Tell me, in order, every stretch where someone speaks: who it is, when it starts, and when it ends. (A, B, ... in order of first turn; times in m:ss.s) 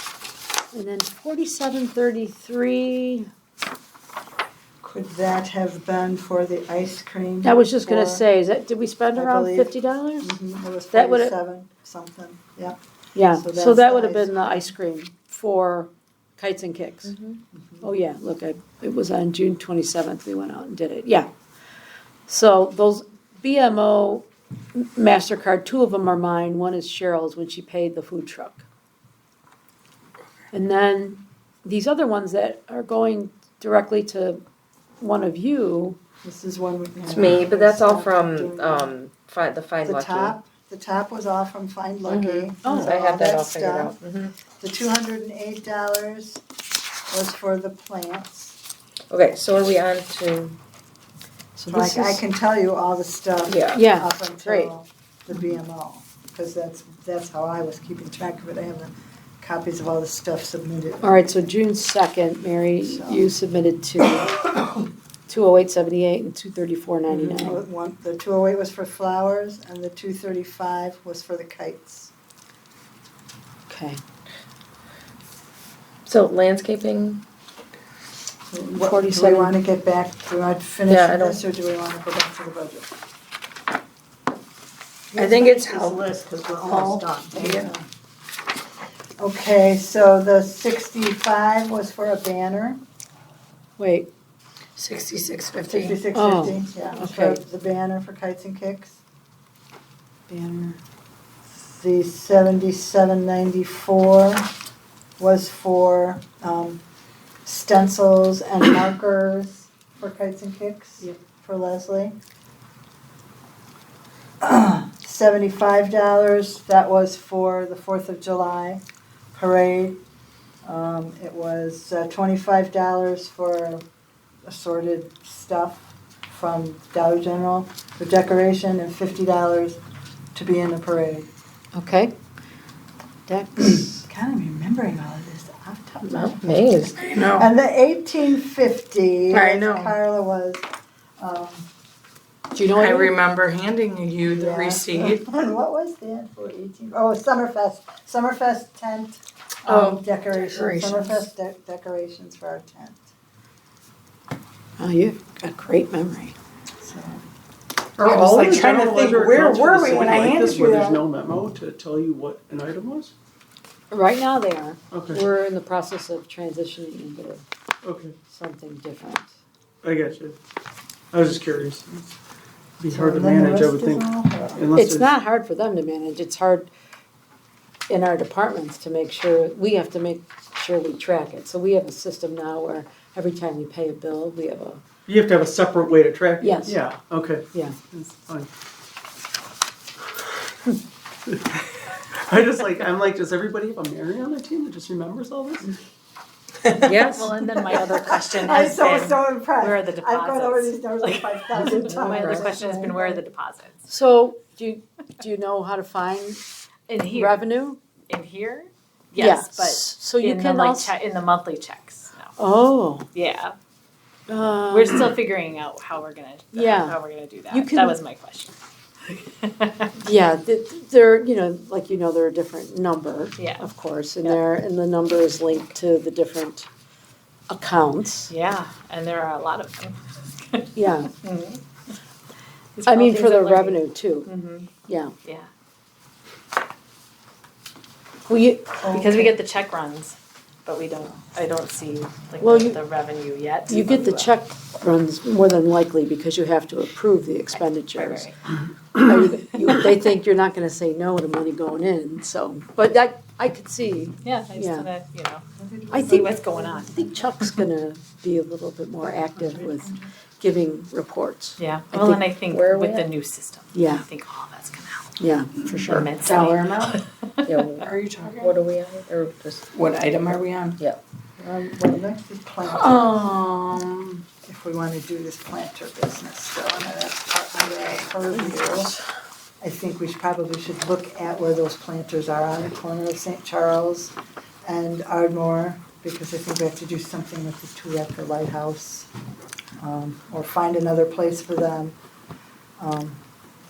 0:00.7-0:03.3 A
0:04.8-0:08.2 B
0:07.4-0:10.3 A
0:09.1-0:12.8 B
0:10.9-0:11.3 A
0:13.1-0:17.1 A
0:13.3-0:14.7 B
0:17.1-0:17.4 C
0:17.5-0:17.8 B
0:17.8-0:21.3 A
0:22.3-0:28.6 A
0:30.5-0:34.4 A
0:35.0-0:36.0 A
0:36.2-0:38.9 B
0:37.1-0:40.4 C
0:39.8-0:44.0 B
0:42.1-0:44.4 C
0:44.6-0:46.4 B
0:47.1-0:48.6 B
0:49.1-0:50.6 C
0:51.6-0:52.2 A
0:51.7-1:01.5 B
0:53.5-0:53.8 C
0:53.7-0:54.7 A
1:01.0-1:04.4 A
1:02.8-1:03.3 B
1:05.3-1:07.6 A
1:07.1-1:12.1 B
1:13.7-1:14.0 A
1:16.0-1:17.2 C
1:18.5-1:22.9 B
1:18.8-1:19.5 A
1:20.9-1:21.4 C
1:25.1-1:27.8 B
1:25.2-1:27.7 D
1:29.2-1:32.8 B
1:33.8-1:34.1 A
1:34.8-1:36.0 D
1:35.7-1:39.0 B
1:36.1-1:37.4 A
1:40.3-1:40.8 A
1:41.5-1:44.5 B
1:45.2-1:46.8 B
1:47.4-1:52.2 B
1:54.4-1:58.8 B
1:59.3-2:00.0 B
2:00.6-2:03.8 B
2:04.4-2:09.8 B
2:10.3-2:11.3 B
2:11.7-2:12.1 A
2:13.3-2:13.9 A
2:13.6-2:20.6 B
2:16.1-2:17.0 C
2:17.1-2:17.5 D
2:19.3-2:19.9 D
2:21.2-2:21.7 B
2:22.5-2:23.1 A
2:22.7-2:25.2 D
2:24.2-2:33.1 B
2:29.7-2:31.0 D
2:34.8-2:36.4 A
2:36.8-2:37.2 B
2:38.0-2:43.1 E
2:38.0-2:41.0 D
2:43.9-2:47.4 A
2:44.9-2:45.2 E
2:47.8-2:48.2 E
2:48.3-2:49.4 A
2:49.8-2:50.4 E
2:51.1-2:52.2 E
2:52.8-2:54.0 E
2:52.9-2:54.7 B
2:54.6-2:55.1 E
2:54.7-2:56.7 A
2:57.9-3:04.8 A
3:05.1-3:08.5 E
3:06.4-3:06.8 A
3:11.3-3:11.6 E
3:12.2-3:15.7 E
3:16.8-3:17.3 C
3:17.0-3:23.8 F
3:18.3-3:23.2 B
3:21.6-3:22.4 C
3:23.8-3:26.4 A
3:26.9-3:27.4 F
3:27.1-3:27.8 A
3:28.1-3:32.3 F
3:29.2-3:30.9 A
3:32.4-3:33.1 A
3:33.1-3:33.5 F
3:34.3-3:35.2 A
3:34.7-3:38.5 F
3:36.5-3:37.0 A
3:37.5-3:38.0 A
3:39.1-3:39.9 F
3:40.0-3:46.7 A
3:43.4-3:43.6 F
3:47.5-3:48.3 A
3:48.3-3:50.7 F
3:50.7-3:51.1 A
3:51.2-3:51.6 F
3:52.8-3:54.7 F
3:52.8-3:54.3 A
3:54.8-3:55.1 A
3:58.3-3:59.1 A
3:58.8-3:59.3 B
3:58.9-4:04.3 F
4:02.4-4:02.8 A
4:03.7-4:08.3 A
4:07.5-4:08.4 F
4:08.9-4:14.9 A
4:14.2-4:15.4 F
4:15.6-4:17.1 B
4:15.9-4:16.3 A
4:16.0-4:16.9 F
4:16.8-4:22.2 A
4:19.3-4:20.0 B
4:21.6-4:25.1 F
4:22.5-4:23.1 C
4:23.7-4:24.0 A
4:25.2-4:26.1 A
4:25.9-4:27.0 F
4:26.2-4:26.9 D
4:27.4-4:29.6 C
4:27.8-4:28.5 D
4:29.7-4:30.8 D
4:31.4-4:33.0 B
4:32.8-4:34.0 D
4:34.4-4:38.9 B
4:39.6-4:44.1 B
4:44.6-4:49.1 B
4:49.8-4:52.0 B
4:52.8-4:53.2 B